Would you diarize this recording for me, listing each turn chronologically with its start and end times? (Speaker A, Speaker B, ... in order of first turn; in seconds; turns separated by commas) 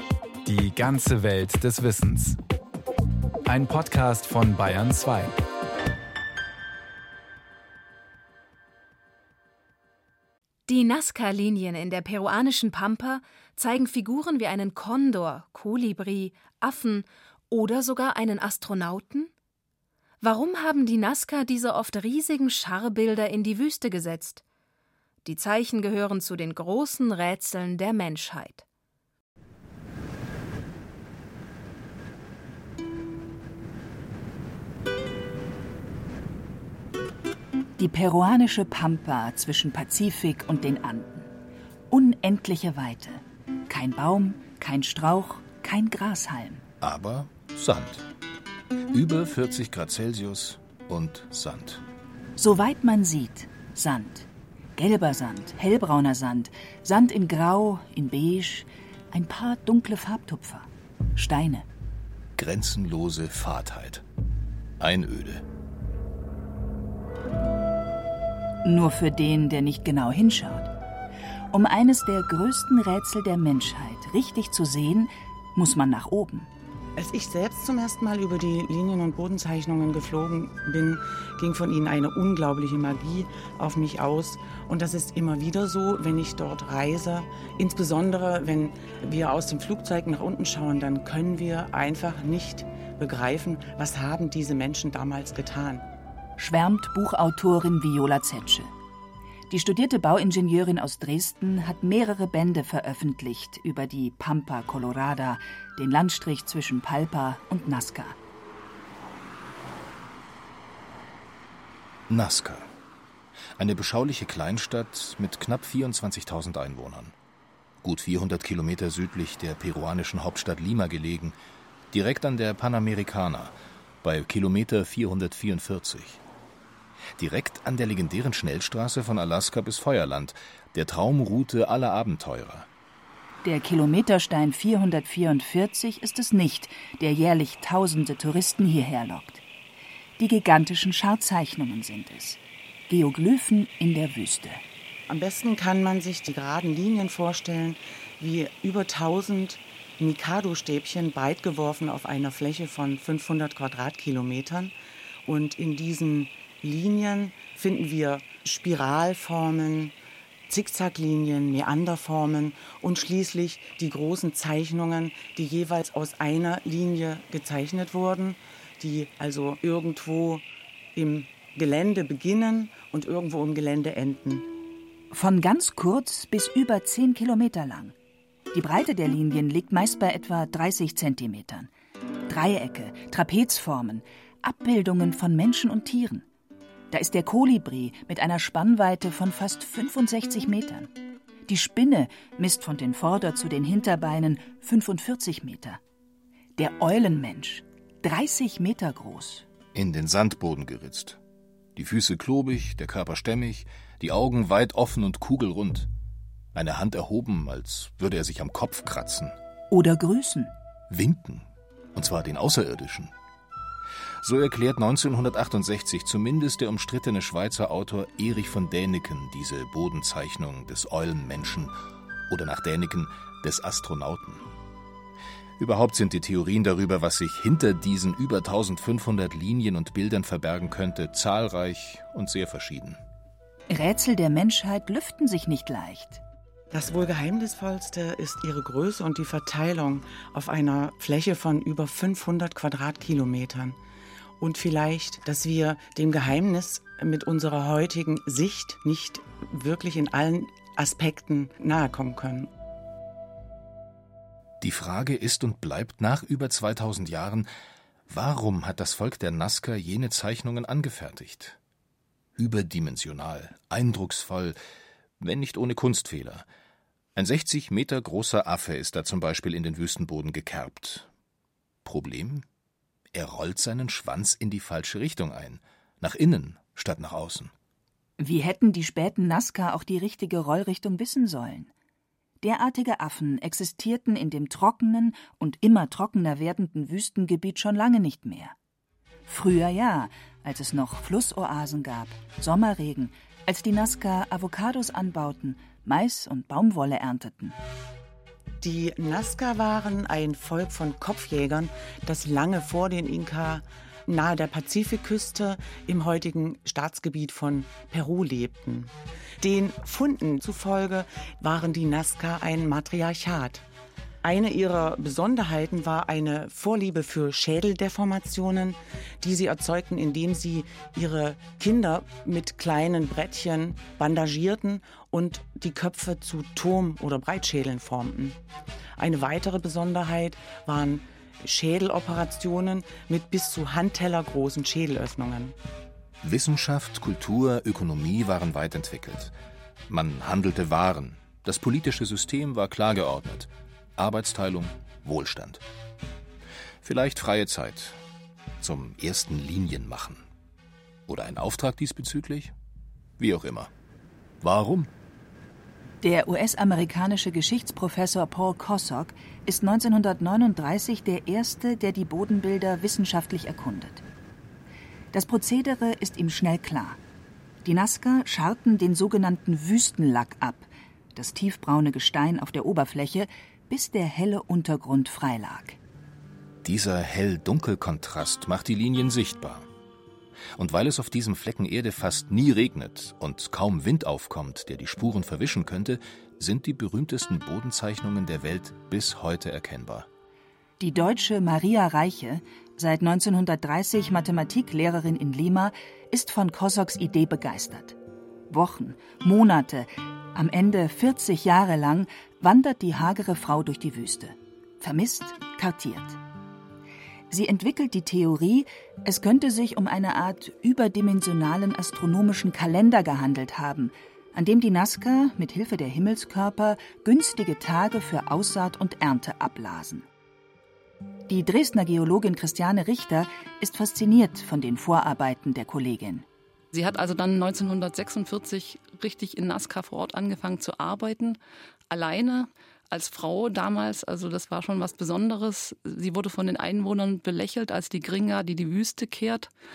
Speaker A: 0.4-2.4, Speaker A: 3.4-5.4, Speaker B: 10.7-19.3, Speaker B: 20.2-24.4, Speaker B: 25.2-28.6, Speaker C: 37.8-41.3, Speaker C: 41.9-46.6, Speaker D: 46.8-48.1, Speaker D: 48.9-51.8, Speaker C: 52.4-61.7, Speaker D: 62.4-64.0, Speaker D: 64.8-65.4, Speaker C: 68.6-70.7, Speaker C: 71.5-76.5, Speaker E: 77.0-95.8, Speaker C: 96.4-98.7, Speaker C: 99.5-108.2, Speaker D: 112.1-112.7, Speaker D: 113.6-117.1, Speaker D: 117.8-121.4, Speaker D: 121.9-126.2, Speaker D: 127.2-132.7, Speaker C: 133.4-139.4, Speaker C: 140.2-144.6, Speaker E: 145.1-154.7, Speaker E: 155.2-159.9, Speaker E: 160.5-174.5, Speaker C: 175.1-177.9, Speaker C: 178.5-181.7, Speaker C: 182.3-186.2, Speaker C: 186.9-190.9, Speaker C: 191.5-195.8, Speaker C: 196.6-199.5, Speaker D: 199.7-201.2, Speaker D: 201.8-205.9, Speaker D: 206.5-209.3, Speaker C: 209.7-210.5, Speaker D: 210.9-213.1, Speaker D: 214.2-221.7, Speaker D: 222.3-224.4, Speaker D: 225.6-233.0, Speaker C: 233.7-236.2, Speaker E: 236.7-243.8, Speaker E: 244.4-252.5, Speaker D: 254.6-257.5, Speaker D: 258.1-261.6, Speaker D: 262.4-264.6, Speaker D: 265.2-266.4, Speaker D: 267.1-271.1, Speaker D: 271.8-272.4, Speaker D: 273.1-277.5, Speaker C: 278.2-281.7, Speaker C: 282.4-288.5, Speaker C: 289.2-297.5, Speaker E: 298.6-313.6, Speaker E: 314.2-328.4, Speaker E: 329.0-335.6, Speaker D: 336.2-339.3, Speaker D: 339.9-345.6, Speaker D: 346.8-348.0, Speaker D: 348.6-350.2, Speaker D: 351.1-352.5, Speaker D: 353.2-353.7, Speaker D: 354.4-354.9, Speaker C: 356.0-364.0, Speaker C: 365.1-367.0, Speaker C: 367.6-375.8, Speaker D: 376.6-379.7, Speaker D: 380.6-390.1, Speaker C: 390.8-398.0, Speaker C: 398.5-406.2, Speaker C: 407.3-420.1, Speaker C: 421.3-426.2, Speaker F: 426.7-431.4, Speaker F: 431.9-439.5